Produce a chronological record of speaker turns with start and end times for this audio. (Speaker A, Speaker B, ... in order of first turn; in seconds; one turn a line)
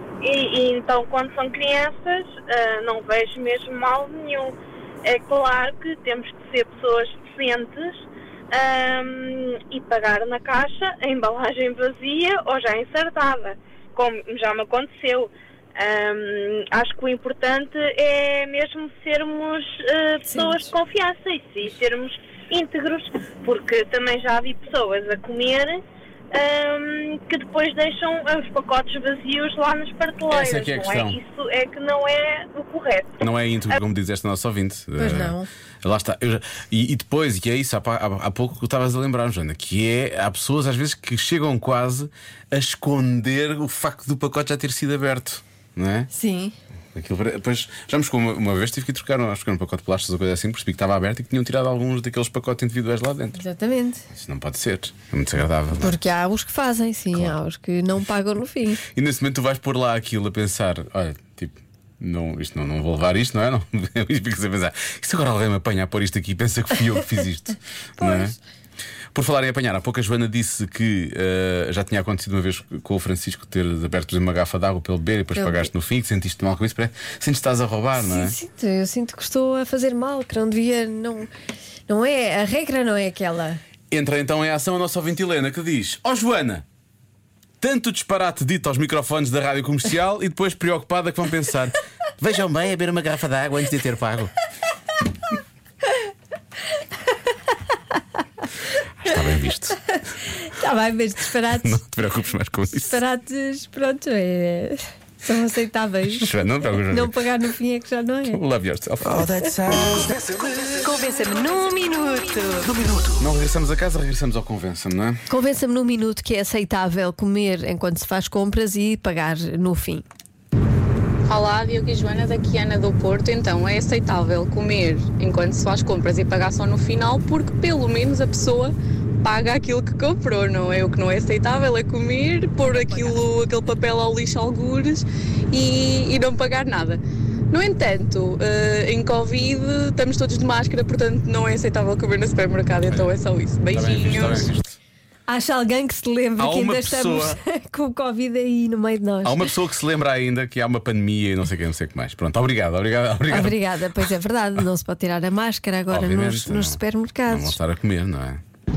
Speaker A: 0.2-33.2
Speaker B: 20.3-20.7
Speaker C: 30.3-31.2
Speaker C: 33.2-46.1
Speaker B: 35.0-35.5
Speaker B: 46.1-46.5
Speaker C: 46.9-53.4
Speaker B: 53.4-54.0
Speaker C: 54.1-56.0
Speaker B: 55.7-58.8
Speaker C: 58.9-68.3
Speaker B: 68.0-68.3
Speaker C: 69.1-78.3
Speaker B: 75.3-75.7
Speaker B: 78.0-81.3
Speaker B: 81.9-83.6
Speaker C: 83.9-86.6
Speaker C: 87.6-94.3
Speaker C: 99.0-99.8
Speaker B: 99.9-101.8
Speaker C: 101.5-103.0
Speaker B: 102.7-108.4
Speaker C: 106.1-107.2
Speaker C: 108.3-110.8
Speaker B: 109.1-109.5
Speaker B: 110.8-112.7
Speaker C: 112.7-115.2
Speaker B: 115.3-120.0
Speaker D: 121.3-144.5
Speaker B: 132.7-133.2
Speaker C: 142.9-143.2
Speaker C: 143.7-144.8
Speaker B: 145.3-149.5
Speaker C: 146.4-147.4
Speaker C: 149.2-154.1
Speaker B: 153.3-157.6
Speaker C: 155.9-158.4